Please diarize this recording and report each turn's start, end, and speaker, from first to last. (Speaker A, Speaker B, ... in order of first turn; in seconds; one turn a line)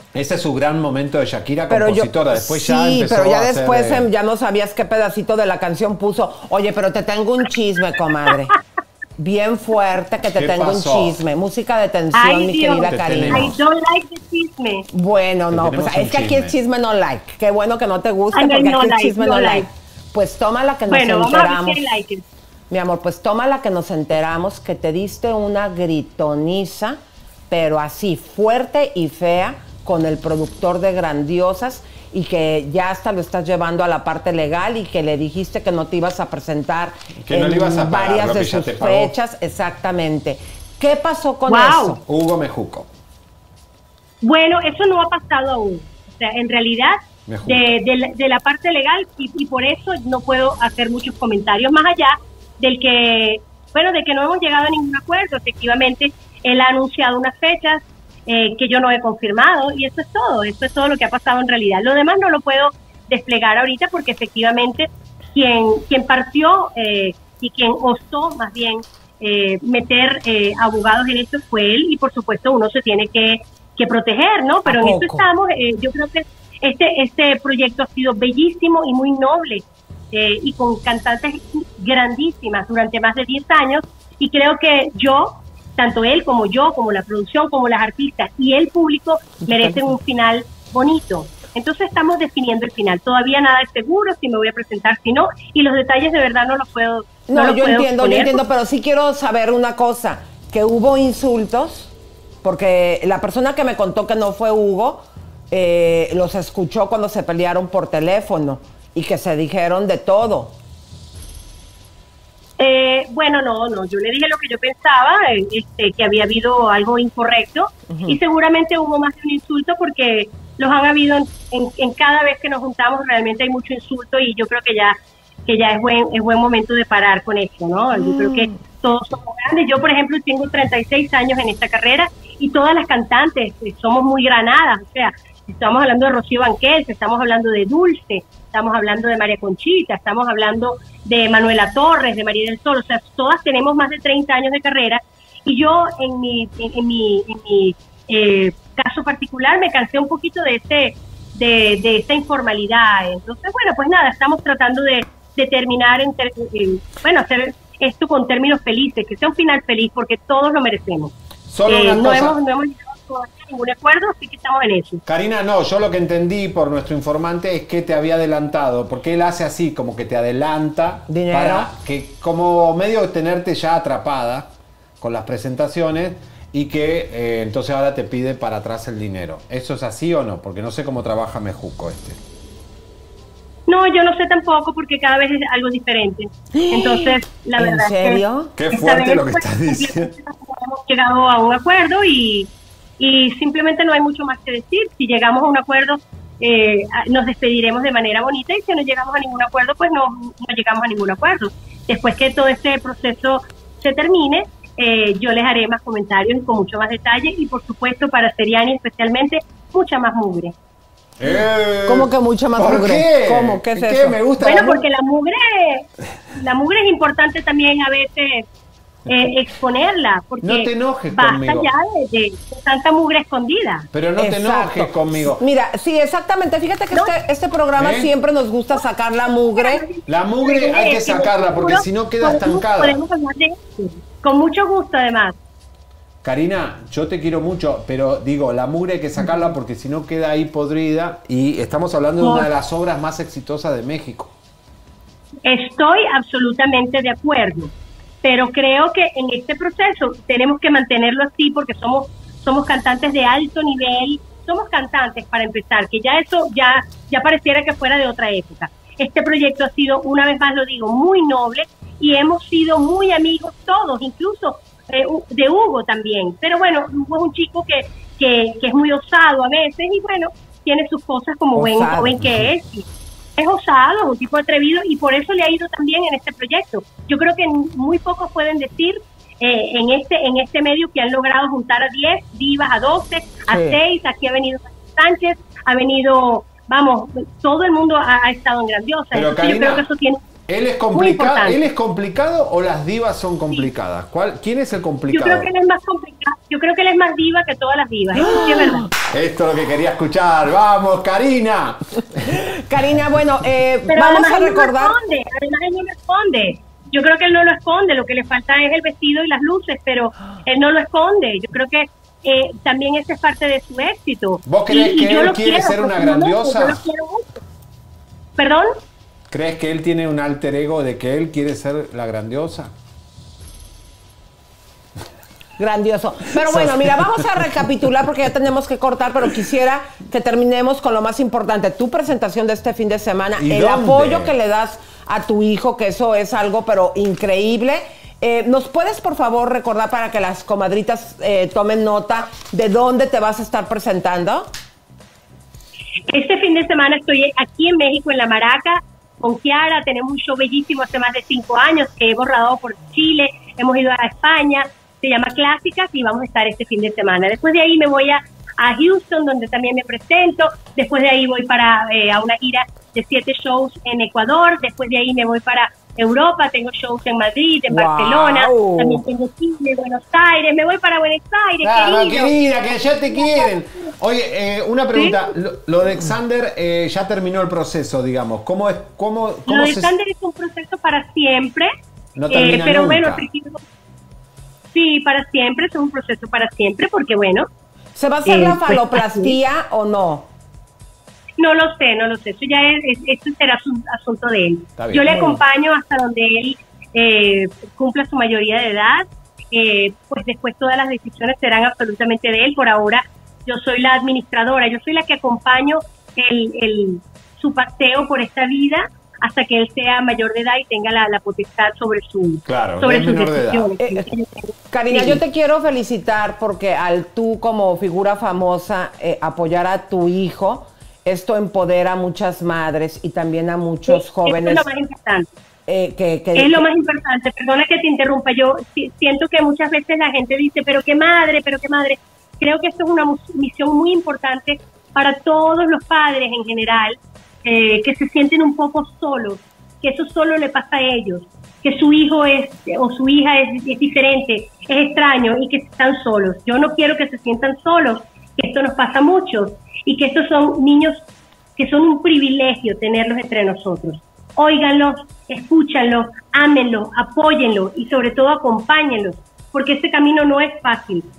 Speaker A: 0.1-4.1
Speaker B: 1.7-8.6
Speaker B: 9.2-13.5
Speaker A: 10.3-11.2
Speaker C: 12.1-14.9
Speaker A: 12.9-13.6
Speaker B: 14.9-21.8
Speaker A: 15.5-16.6
Speaker C: 18.3-19.7
Speaker C: 20.9-22.2
Speaker B: 22.7-27.0
Speaker B: 27.5-42.0
Speaker A: 37.2-39.1
Speaker C: 41.5-42.0
Speaker A: 42.1-42.9
Speaker C: 44.2-98.4
Speaker A: 47.3-47.8
Speaker B: 74.7-75.2
Speaker B: 89.5-89.9
Speaker B: 97.3-110.5
Speaker C: 112.6-125.0
Speaker B: 117.9-118.2
Speaker C: 125.5-161.1
Speaker B: 128.0-128.5
Speaker A: 161.5-162.4
Speaker C: 161.7-165.0
Speaker A: 165.1-182.2
Speaker B: 171.1-171.7
Speaker C: 183.7-210.5
Speaker B: 186.6-188.5
Speaker A: 188.6-190.1
Speaker A: 211.2-214.8
Speaker B: 211.9-214.2
Speaker C: 214.4-218.5
Speaker C: 219.1-223.9
Speaker A: 220.4-221.7
Speaker A: 223.9-225.4
Speaker B: 224.2-229.8
Speaker A: 227.8-228.1
Speaker C: 229.5-235.4
Speaker A: 230.1-233.0
Speaker A: 236.2-244.3
Speaker C: 242.2-242.5
Speaker C: 245.4-247.7
Speaker C: 248.2-272.9
Speaker B: 271.6-272.4
Speaker C: 273.4-290.2
Speaker B: 283.5-283.8
Speaker A: 289.1-289.9
Speaker A: 290.5-295.5
Speaker C: 290.9-291.6
Speaker C: 295.1-298.9
Speaker B: 298.2-298.9
Speaker A: 298.9-302.3
Speaker B: 302.3-305.0
Speaker C: 303.9-317.4
Speaker A: 314.5-316.8
Speaker C: 318.4-318.7
Speaker A: 319.3-322.7
Speaker B: 325.6-344.5
Speaker A: 333.4-334.3
Speaker C: 346.1-372.4
Speaker B: 367.7-369.1
Speaker A: 371.6-379.9
Speaker C: 373.1-373.5
Speaker C: 374.9-375.2
Speaker C: 379.5-381.7
Speaker A: 382.2-383.3
Speaker C: 382.3-383.6
Speaker C: 384.7-387.5
Speaker B: 388.0-390.3
Speaker C: 388.2-389.4
Speaker C: 391.4-415.2
Speaker A: 394.8-395.3
Speaker A: 412.5-413.7
Speaker B: 413.8-414.1
Speaker B: 414.7-424.7
Speaker C: 423.9-425.3
Speaker B: 425.7-426.6
Speaker C: 426.4-451.0
Speaker C: 451.6-461.1